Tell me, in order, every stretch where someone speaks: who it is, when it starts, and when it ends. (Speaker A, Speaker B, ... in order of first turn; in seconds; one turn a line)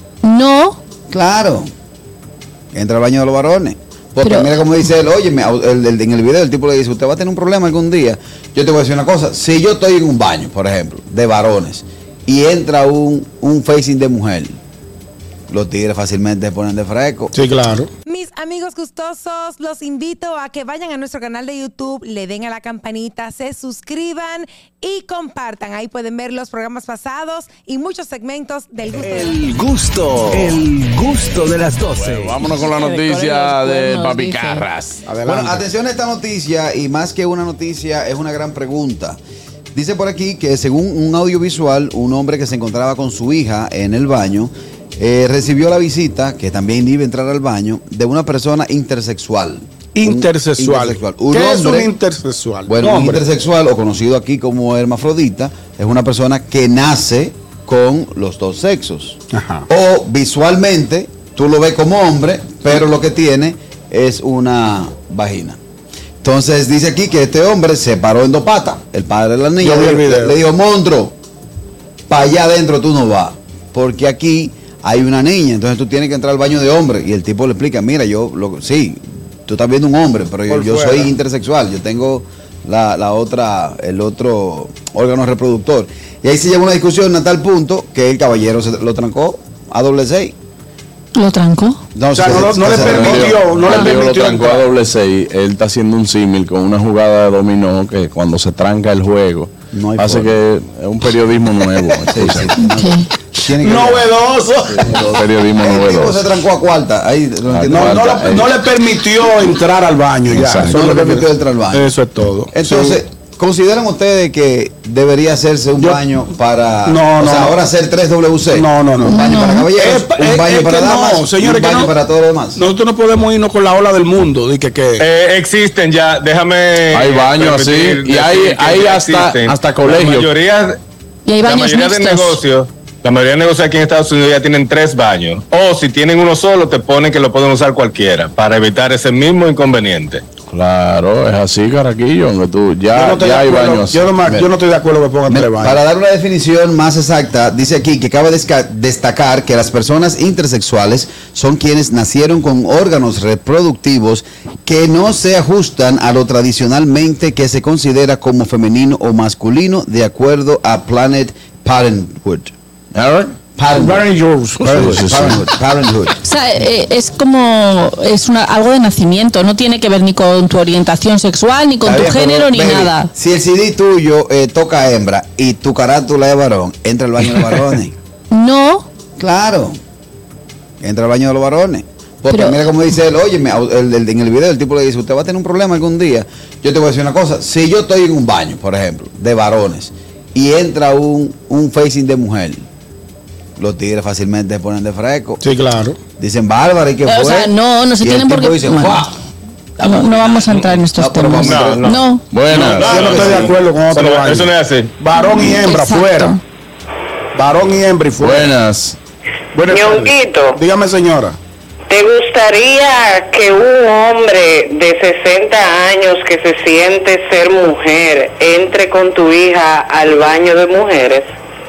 Speaker A: 0.2-0.8
Speaker B: 1.1-1.7
Speaker B: 2.7-14.6
Speaker A: 4.2-4.5
Speaker B: 15.5-17.3
Speaker C: 17.3-17.9
Speaker D: 18.1-29.5
Speaker E: 28.9-32.4
Speaker F: 31.9-35.0
Speaker A: 32.4-34.6
Speaker C: 35.0-35.6
Speaker B: 35.2-39.2
Speaker B: 39.7-51.9
Speaker C: 49.9-53.2
Speaker B: 52.7-65.6
Speaker C: 59.3-59.6
Speaker B: 66.2-71.1
Speaker C: 69.6-70.3
Speaker B: 72.1-90.3
Speaker C: 80.5-81.1
Speaker A: 91.2-91.8
Speaker B: 91.9-93.4
Speaker C: 92.1-94.7
Speaker F: 92.2-102.5
Speaker B: 99.7-100.4
Speaker B: 102.1-104.1
Speaker A: 102.7-103.0
Speaker C: 103.6-105.0
Speaker B: 104.8-108.4
Speaker F: 105.0-106.2
Speaker F: 107.5-108.5
Speaker C: 107.7-113.0
Speaker F: 110.3-110.8
Speaker B: 110.6-111.9
Speaker B: 112.5-122.6
Speaker C: 116.8-117.5
Speaker C: 118.5-119.2
Speaker A: 119.0-119.7
Speaker C: 119.7-121.9
Speaker C: 122.5-125.0
Speaker G: 125.0-130.8
Speaker F: 126.9-130.3
Speaker A: 131.2-132.4
Speaker G: 131.4-140.2
Speaker F: 140.5-144.2
Speaker C: 142.9-145.8
Speaker B: 145.3-162.5
Speaker F: 162.9-163.3
Speaker B: 163.6-164.1
Speaker C: 163.7-165.0
Speaker B: 164.6-166.1
Speaker F: 164.7-165.4
Speaker A: 166.2-173.1
Speaker B: 171.8-177.9
Speaker A: 178.3-178.9
Speaker B: 179.2-179.8
Speaker B: 180.8-192.6
Speaker A: 182.3-182.6
Speaker B: 193.6-195.4
Speaker C: 195.4-196.0
Speaker B: 196.2-199.1
Speaker A: 197.1-199.1
Speaker B: 199.8-202.0
Speaker A: 199.8-202.2
Speaker G: 201.4-202.0
Speaker F: 202.3-203.1
Speaker C: 202.5-206.3
Speaker G: 202.6-204.9
Speaker A: 205.1-206.4
Speaker C: 207.3-208.5
Speaker F: 208.2-209.0
Speaker C: 209.5-211.4
Speaker H: 209.7-210.6
Speaker H: 211.9-221.2